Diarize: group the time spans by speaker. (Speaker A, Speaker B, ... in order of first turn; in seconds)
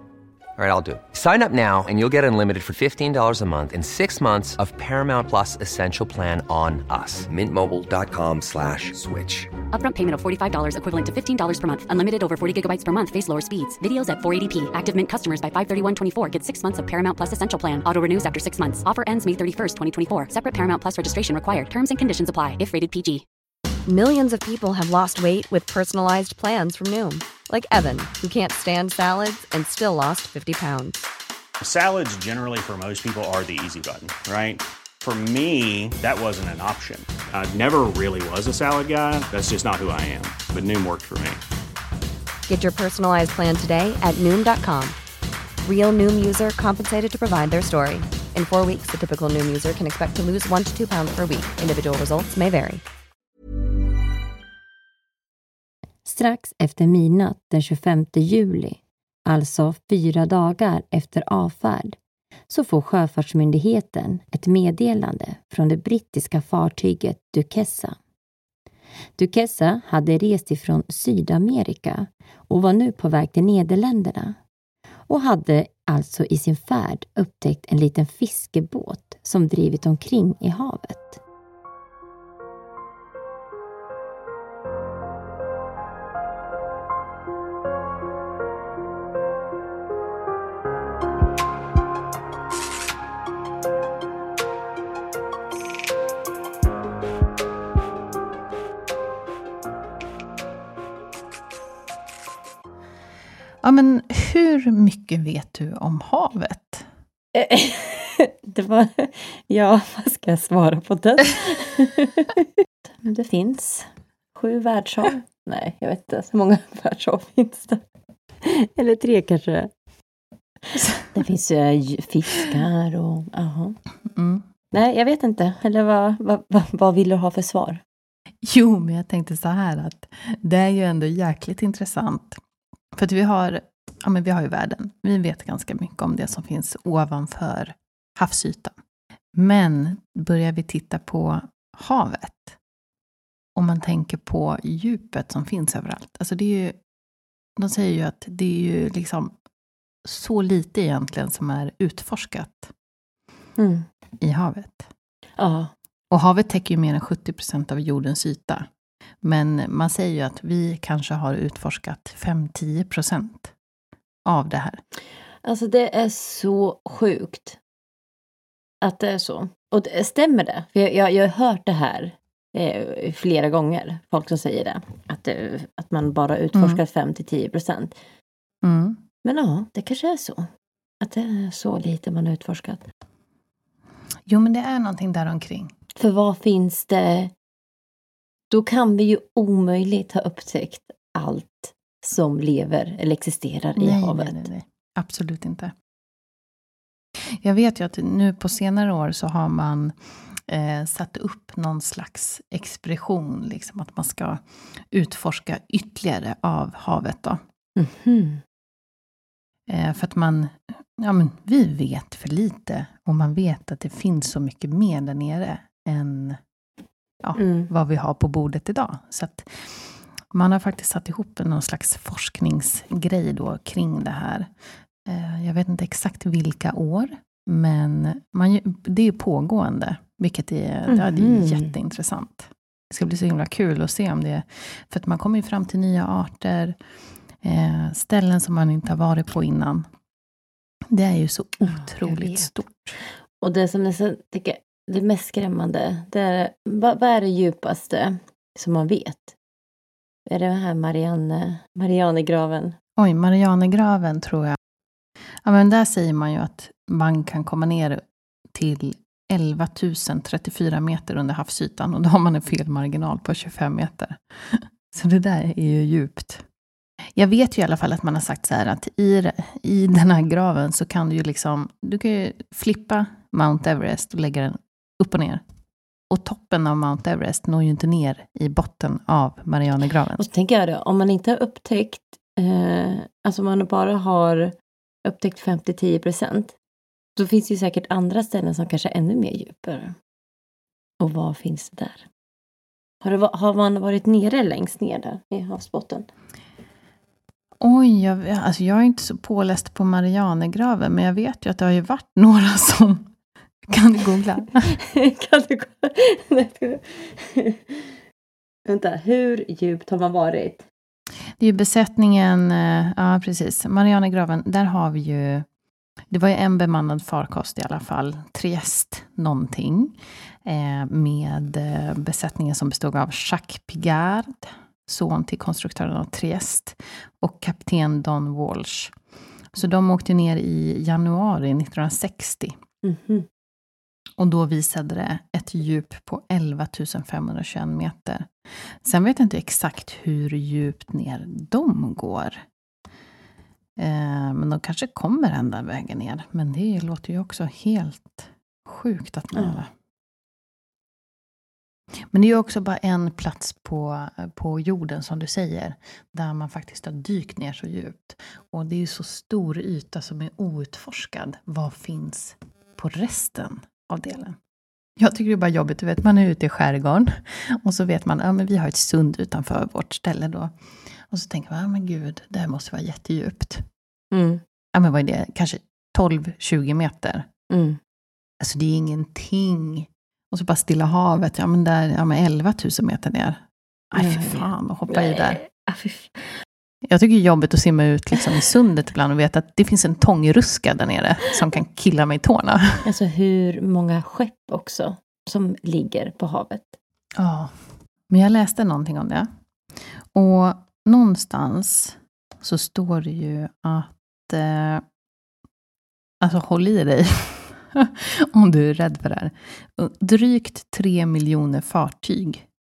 Speaker A: 0.6-9.5
Speaker B: 9.7-23.2
Speaker C: 23.9-31.1, 42.5-45.0, 45.6-52.8
Speaker D: 31.6-41.4
Speaker E: 56.0-62.0, 62.5-68.0, 69.2-74.4, 75.1-81.2, 107.3-117.8, 118.4-119.7, 121.1-123.8, 124.7-127.8, 153.6-153.9, 155.4-155.7, 165.4-167.6, 168.8-178.0, 179.2-180.5, 181.0-182.9, 186.0-187.3, 188.5-194.4, 207.8-208.4, 217.4-217.7, 230.9-231.7, 241.7-242.5, 243.4-249.3, 250.3-252.8, 280.2-286.6, 287.2-289.9, 291.0-292.1, 293.0-296.1, 304.7-308.0, 308.7-310.7, 332.8-333.3, 349.4-349.6, 374.1-374.4, 377.5-377.8, 384.0-386.3, 392.9-396.8
Speaker F: 103.6-106.9, 120.8-121.1, 124.2-124.4, 128.4-132.4, 132.9-138.8, 139.3-142.6, 143.6-146.8, 147.6-149.3, 150.1-152.7, 154.2-154.9, 156.1-158.7, 159.2-163.5, 164.3-164.8, 176.6-176.8, 178.6-179.0, 184.3-185.7, 193.8-195.7, 197.3-199.9, 200.5-207.4, 209.7-216.4, 217.2-224.5, 225.1-236.8, 237.4-239.9, 240.9-243.0, 253.0-254.6, 255.4-258.0, 258.5-266.4, 267.2-275.4, 276.1-280.2, 297.6-303.1, 303.7-304.7, 311.4-315.4, 316.1-328.9, 329.5-332.5, 334.2-338.3, 338.8-342.4, 343.8-349.7, 352.1-364.4, 365.0-373.6, 374.8-377.3, 378.4-385.4, 386.9-392.9, 397.2-397.5, 398.1-399.3, 400.1-404.8, 406.2-412.5